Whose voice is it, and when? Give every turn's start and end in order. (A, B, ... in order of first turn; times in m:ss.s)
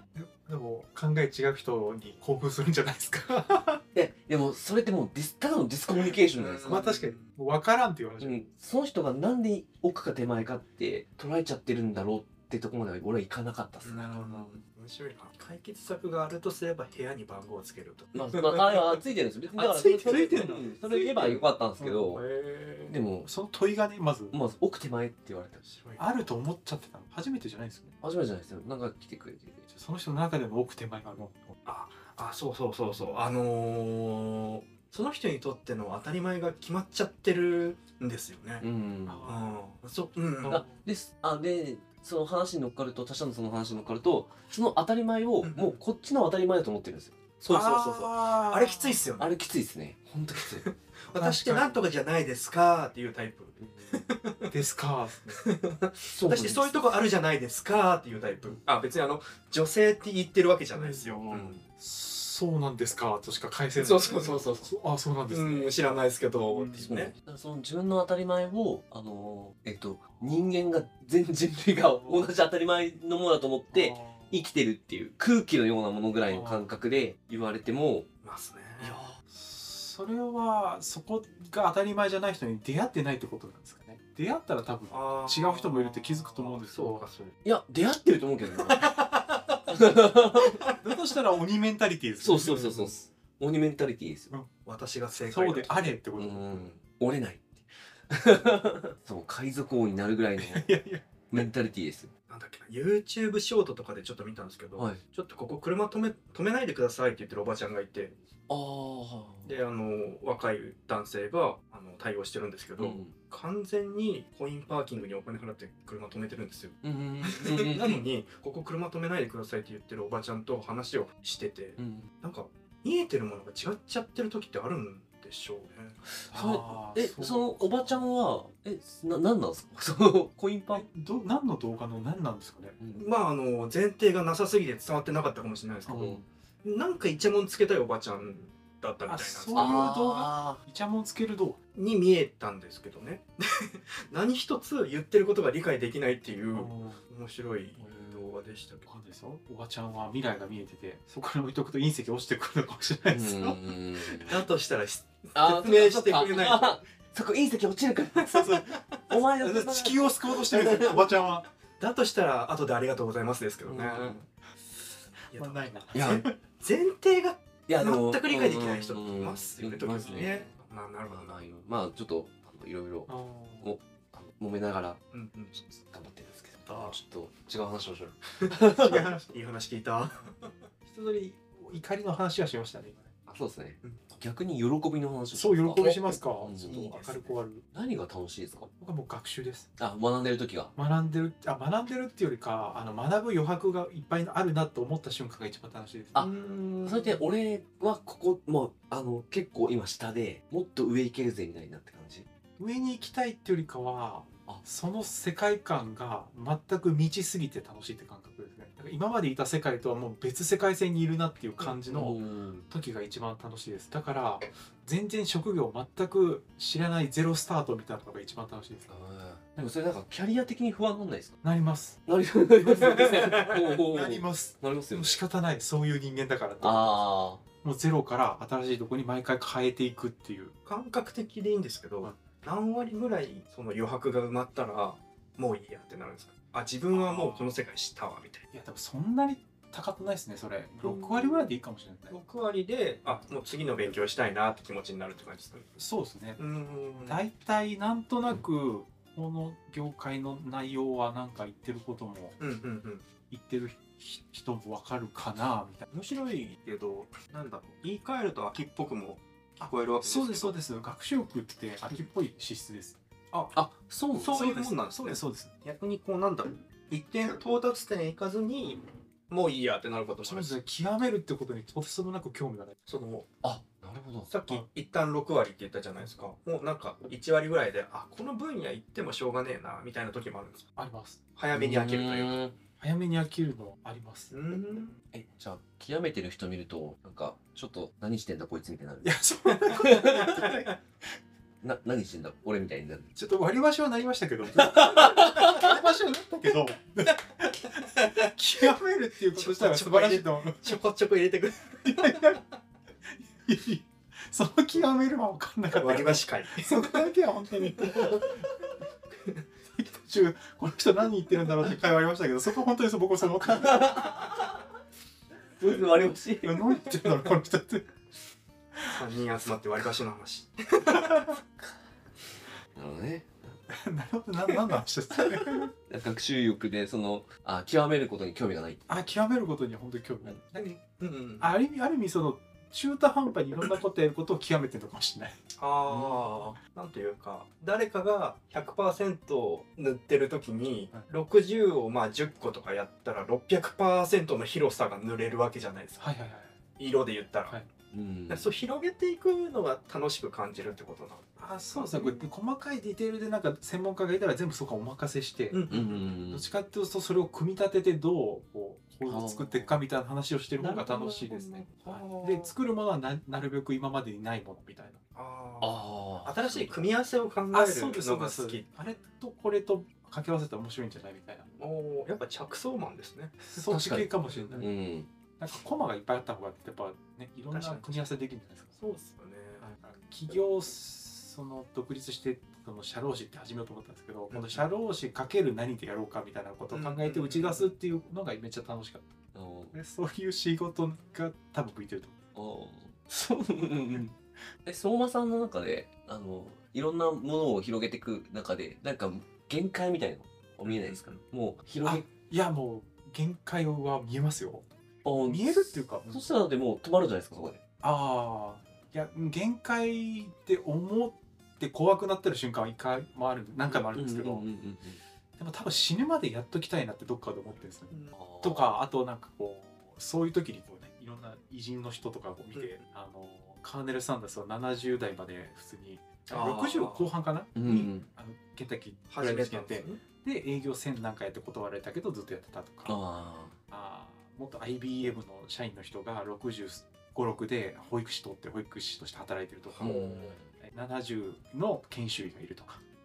0:00.1-0:03.8 A
0:03.9-0:06.8 B
0:06.0-0:07.2 C
0:06.6-0:08.4 A
0:08.2-0:14.0 B
0:13.8-0:19.0 C
0:13.9-0:14.6 A
0:18.1-0:22.2 B
0:19.5-0:21.4 C
0:20.0-0:20.8 A
0:21.8-0:22.0 A
0:22.0-0:23.0 C
0:22.9-0:23.3 B
0:23.2-0:24.4 A
0:24.3-0:25.6 B
0:25.6-0:26.2 C
0:26.0-0:27.9 A
0:28.0-0:29.7 B
0:29.7-0:31.5 A
0:31.6-0:38.6 C
0:38.6-0:39.3 B
0:39.0-0:39.6 A
0:39.2-0:40.6 C
0:40.4-0:40.7 A
0:40.4-0:48.1 B
0:45.4-0:45.8 C
0:47.5-0:49.1 A
0:48.5-0:49.3 C
0:49.2-0:50.7 B
0:50.5-0:54.5 C
0:51.1-0:51.8 A
0:53.6-0:54.0 B
0:54.5-0:55.4 A
0:55.3-1:01.6 C
0:56.1-0:56.8 B
1:00.7-1:06.9 A
1:01.3-1:01.6 B
1:03.8-1:04.7 C
1:05.3-1:07.1 C
1:06.8-1:18.1 B
1:12.0-1:12.3 A
1:13.7-1:14.4 A
1:16.3-1:16.7 A
1:18.2-1:19.0 C
1:18.8-1:19.2 B
1:19.2-1:27.0 A
1:24.9-1:27.3 C
1:27.4-1:28.9 B
1:28.6-1:29.6 C
1:29.7-1:30.6 B
1:30.4-1:30.7 C
1:30.8-1:32.9 A
1:32.2-1:34.3 B
1:32.4-1:32.9 C
1:34.6-1:36.0 C
1:35.1-1:36.7 A
1:36.2-1:40.7 B
1:40.4-1:41.1 A
1:41.3-1:42.1 B
1:42.3-1:48.1 C
1:44.8-1:45.0 B
1:48.5-1:49.5 B
1:49.4-2:06.0 C
1:52.8-1:53.1 B
1:56.8-1:58.0 B
2:01.8-2:02.1 B
2:06.1-2:10.8 B
2:06.3-2:08.0 A
2:10.7-2:12.8 A
2:12.8-2:13.1 B
2:13.0-2:19.9 C
2:15.8-2:16.2 A
2:19.0-2:21.6 A
2:19.5-2:20.6 B
2:21.7-2:28.9 C
2:26.5-2:27.0 A
2:27.8-2:28.5 B
2:28.9-2:33.6 A
2:33.1-2:34.4 B
2:34.0-2:36.8 C
2:35.3-2:41.0 B
2:38.2-2:38.5 C
2:38.3-2:41.5 A
2:40.6-2:41.0 C
2:41.8-2:44.2 C
2:43.6-2:44.2 B
2:45.3-2:51.4 C
2:45.3-2:46.3 A
2:45.9-2:46.2 B
2:47.7-2:50.5 B
2:50.0-2:50.4 A
2:51.1-2:53.1 B
2:53.1-2:53.7 A
2:53.6-2:55.0 B
2:55.1-2:55.6 C
2:55.5-2:59.1 B
2:56.6-2:57.0 C
2:58.4-3:00.5 C
3:00.9-3:03.1 A
3:03.3-3:06.8 B
3:05.3-3:07.6 A
3:06.6-3:07.4 C
3:07.7-3:08.7 B
3:08.8-3:09.7 A
3:09.8-3:10.7 B
3:10.8-3:16.2 A
3:16.2-3:17.2 C
3:16.8-3:22.3 B
3:22.6-3:38.9 A
3:31.8-3:32.6 B
3:38.9-3:41.4 B
3:41.4-3:42.0 A
3:42.0-3:45.2 B
3:42.9-3:47.1 A
3:43.1-3:43.4 C
3:46.6-3:47.4 B
3:47.6-3:50.5 A
3:50.6-3:58.4 C
3:56.9-3:57.6 A
3:58.5-4:02.2 A
4:00.8-4:01.5 C
4:02.1-4:05.7 C
4:05.8-4:06.4 A
4:06.4-4:07.2 C
4:07.0-4:12.4 A
4:12.4-4:13.0 C
4:13.3-4:15.9 A
4:15.9-4:20.5 C
4:19.6-4:23.0 A
4:23.5-4:24.4 B
4:24.1-4:30.6 C
4:24.3-4:25.5 A
4:30.2-4:32.7 A
4:32.8-4:33.3 C
4:33.4-4:34.3 B
4:34.3-4:40.6 C
4:40.8-4:41.2 A
4:41.4-4:42.4 C
4:41.5-4:42.5 B
4:42.8-4:44.4 A
4:44.3-4:45.0 C
4:45.1-4:49.2 B
4:49.0-4:50.7 A
4:49.7-4:50.4 B
4:51.6-4:53.1 B
4:53.1-5:00.8 A
4:54.6-4:55.6 B
4:59.3-5:02.4 C
5:01.8-5:02.4 A
5:03.4-5:08.5 A
5:05.7-5:07.0 C
5:07.8-5:08.3 C
5:09.8-5:14.1 A
5:13.5-5:14.5 B
5:15.6-5:16.8 B
5:16.4-5:17.9 A
5:18.9-5:21.4 C
5:22.7-5:23.6 B
5:23.7-5:25.7 A
5:25.5-5:28.9 B
5:28.9-5:30.7 A
5:30.5-5:31.5 C
5:31.4-5:35.4 A
5:35.6-5:46.1 C
5:35.9-5:36.2 B
5:46.0-5:46.6 A
5:46.8-5:47.5 C
5:47.9-5:48.5 B
5:48.3-5:52.3 C
5:51.4-5:55.6 A
5:55.5-5:56.1 C
5:55.7-5:56.4 B
5:56.3-6:05.0 A
5:59.0-5:59.8 B
6:00.6-6:02.5 C
6:05.1-6:08.6 C
6:05.6-6:06.8 B
6:07.5-6:11.5 A
6:11.6-6:13.4 C
6:13.4-6:14.7 A
6:13.6-6:15.1 B
6:14.3-6:14.6 C
6:15.4-6:18.7 A
6:17.5-6:18.1 C
6:18.7-6:19.7 C
6:19.6-6:29.1 A
6:24.3-6:24.6 C
6:26.7-6:27.7 C
6:29.3-6:29.7 B
6:29.7-6:32.2 A
6:32.3-6:34.1 B
6:34.6-6:42.0 B
6:40.6-6:41.2 C
6:41.8-6:44.6 A
6:45.0-6:47.6 B
6:45.2-6:46.3 A
6:47.8-6:54.4 A
6:53.7-6:55.0 B
6:55.4-7:13.0 A
6:57.9-6:58.2 C
6:58.1-6:58.7 B
7:06.3-7:07.1 C
7:07.6-7:08.1 B
7:09.1-7:10.0 C
7:12.9-7:13.5 B
7:13.7-7:22.8 A
7:19.8-7:20.5 B
7:19.8-7:20.2 C